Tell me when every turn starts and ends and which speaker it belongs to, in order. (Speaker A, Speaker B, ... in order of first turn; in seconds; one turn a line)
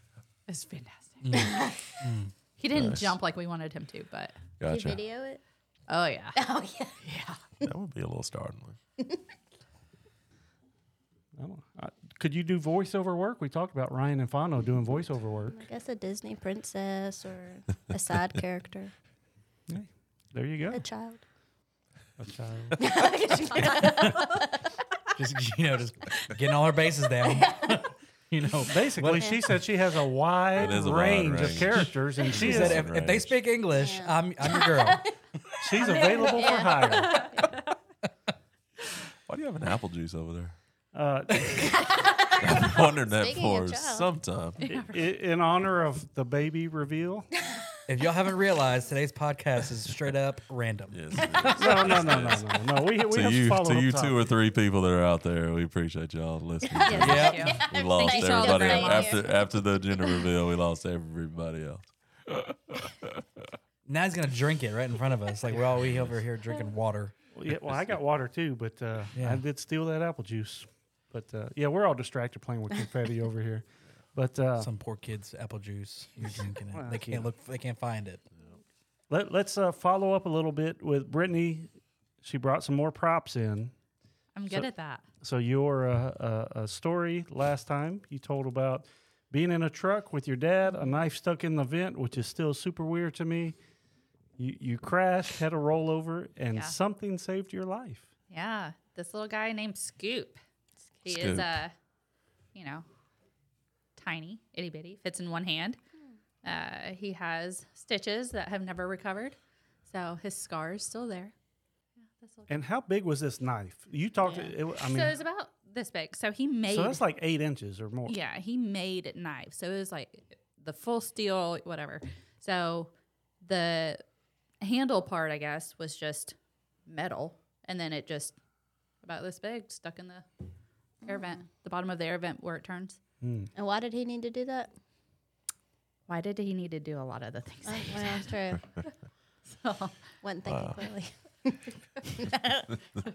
Speaker A: 0.5-1.4
Speaker B: 1.2-2.3
Speaker C: 1.4-1.7
Speaker A: 2.6-4.3
Speaker D: 2.7-3.2
Speaker D: 4.6-5.0
Speaker C: 4.7-5.4
Speaker A: 5.9-6.4
Speaker C: 6.3-7.0
Speaker A: 7.0-7.4
Speaker D: 7.6-8.8
Speaker E: 11.4-15.6
Speaker C: 15.5-18.9
Speaker E: 19.7-20.9
Speaker C: 20.7-21.2
Speaker E: 22.2-22.8
Speaker C: 22.8-24.6
Speaker B: 23.6-24.2
Speaker B: 25.1-29.5
Speaker C: 27.2-27.8
Speaker E: 28.6-32.9
Speaker D: 30.5-33.4
Speaker B: 31.7-35.1
Speaker C: 33.7-35.1
Speaker E: 35.6-37.3
Speaker C: 35.8-37.5
Speaker A: 36.4-37.5
Speaker D: 39.3-40.5
Speaker E: 40.9-41.9
Speaker C: 41.8-44.1
Speaker D: 42.4-44.6
Speaker A: 44.6-45.1
Speaker E: 44.7-47.3
Speaker B: 47.9-51.7
Speaker D: 50.9-63.2
Speaker E: 51.5-54.2
Speaker C: 56.7-59.3
Speaker A: 56.8-59.2
Speaker B: 57.0-57.6
Speaker B: 63.9-67.1
Speaker D: 65.8-66.2
Speaker E: 67.3-74.7
Speaker D: 67.6-68.0
Speaker B: 69.2-69.4
Speaker B: 74.6-78.2
Speaker E: 76.7-77.3
Speaker E: 79.1-83.7
Speaker A: 84.3-85.0
Speaker E: 85.2-93.6
Speaker E: 94.4-98.1
Speaker A: 98.3-100.4
Speaker A: 101.0-101.7
Speaker D: 101.0-101.6
Speaker A: 102.5-102.8
Speaker A: 104.0-105.8
Speaker A: 106.4-109.3
Speaker A: 109.9-111.3
Speaker A: 112.1-112.5
Speaker E: 112.5-115.2
Speaker A: 114.2-117.0
Speaker E: 116.7-118.2
Speaker A: 118.0-122.9
Speaker A: 123.4-124.0
Speaker A: 124.6-126.3
Speaker A: 126.9-128.3
Speaker A: 129.0-130.2
Speaker A: 131.0-133.0
Speaker E: 133.2-133.5
Speaker C: 133.5-134.7
Speaker A: 136.1-138.3
Speaker C: 137.7-138.6
Speaker A: 139.5-140.0
Speaker C: 140.2-142.7
Speaker D: 140.5-140.8